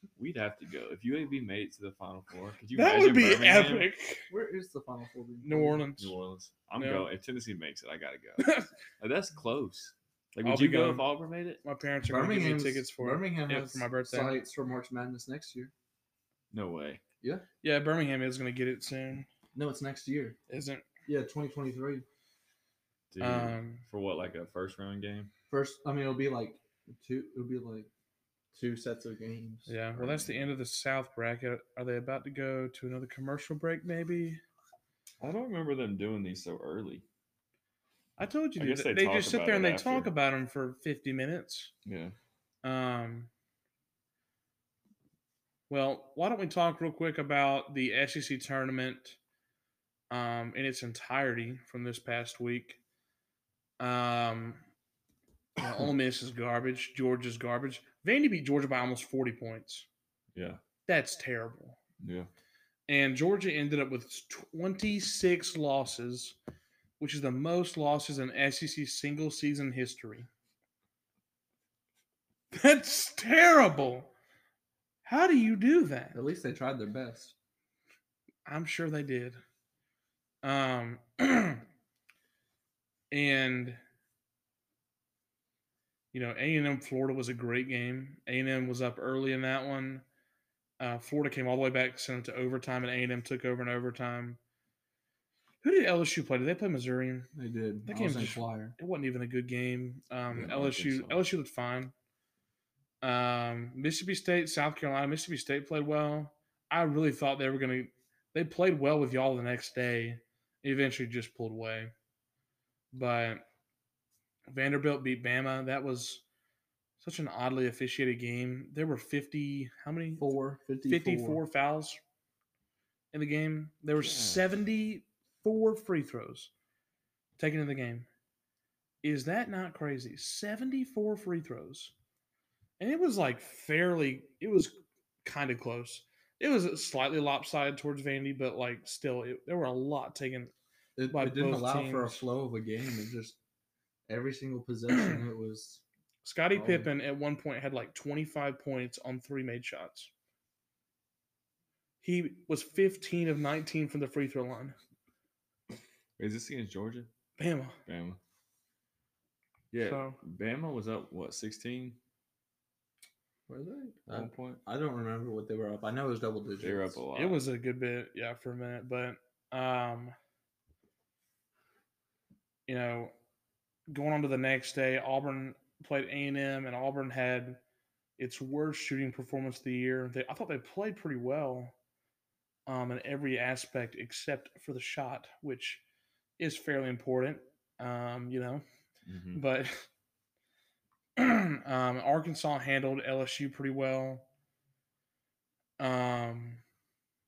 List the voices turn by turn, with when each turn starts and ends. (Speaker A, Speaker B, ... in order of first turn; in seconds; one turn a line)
Speaker A: 0.2-3.9
Speaker B: 2.8-4.3
Speaker C: 4.3-5.8
Speaker B: 5.4-6.1
Speaker A: 6.0-11.6
Speaker B: 6.8-7.1
Speaker B: 8.4-8.7
Speaker B: 10.4-11.1
Speaker B: 11.6-14.4
Speaker C: 12.1-15.7
Speaker A: 16.5-17.0
Speaker C: 17.2-17.5
Speaker B: 17.6-19.3
Speaker C: 19.6-20.4
Speaker B: 20.5-20.9
Speaker C: 21.1-22.1
Speaker A: 23.1-25.3
Speaker B: 23.2-23.9
Speaker C: 25.5-27.9
Speaker C: 28.5-29.7
Speaker B: 29.7-34.4
Speaker A: 29.9-30.5
Speaker A: 35.2-37.0
Speaker B: 38.2-41.7
Speaker A: 38.6-40.1
Speaker A: 41.9-42.1
Speaker B: 42.6-43.3
Speaker B: 45.7-49.2
Speaker B: 50.1-52.8
Speaker B: 53.8-54.6
Speaker B: 55.6-59.9
Speaker A: 60.4-60.6
Speaker B: 60.9-61.8
Speaker A: 62.0-62.3
Speaker B: 62.9-66.4
Speaker B: 67.0-70.3
Speaker B: 72.5-74.1
Speaker B: 75.0-76.2
Speaker C: 76.1-77.3
Speaker B: 78.5-79.4
Speaker B: 80.4-81.7
Speaker B: 83.1-83.8
Speaker B: 86.1-90.0
Speaker B: 90.8-94.4
Speaker B: 95.6-97.3
Speaker C: 97.3-98.8
Speaker B: 97.9-101.9
Speaker A: 100.3-101.2
Speaker B: 103.0-111.9
Speaker B: 112.9-113.5
Speaker B: 114.5-116.2
Speaker B: 117.0-120.3
Speaker C: 120.2-121.4
Speaker B: 120.8-122.0
Speaker B: 123.1-126.5
Speaker A: 124.0-124.4
Speaker B: 127.4-128.1
Speaker B: 129.0-131.9
Speaker B: 132.8-140.5
Speaker C: 141.0-143.4
Speaker B: 141.1-142.2
Speaker C: 144.1-145.8
Speaker B: 146.2-150.1
Speaker C: 146.5-146.9
Speaker B: 152.0-154.8
Speaker A: 156.2-157.1
Speaker B: 157.4-157.8
Speaker A: 157.9-158.2
Speaker A: 159.7-162.0
Speaker B: 159.8-160.2
Speaker C: 163.5-167.0
Speaker A: 164.1-164.6
Speaker A: 166.6-167.4
Speaker B: 167.2-170.2
Speaker B: 172.7-173.1
Speaker B: 173.9-177.6
Speaker B: 178.2-181.7
Speaker B: 182.7-185.8
Speaker B: 186.4-188.6
Speaker A: 189.1-189.4
Speaker B: 189.3-189.9
Speaker B: 191.2-194.3
Speaker B: 195.8-196.6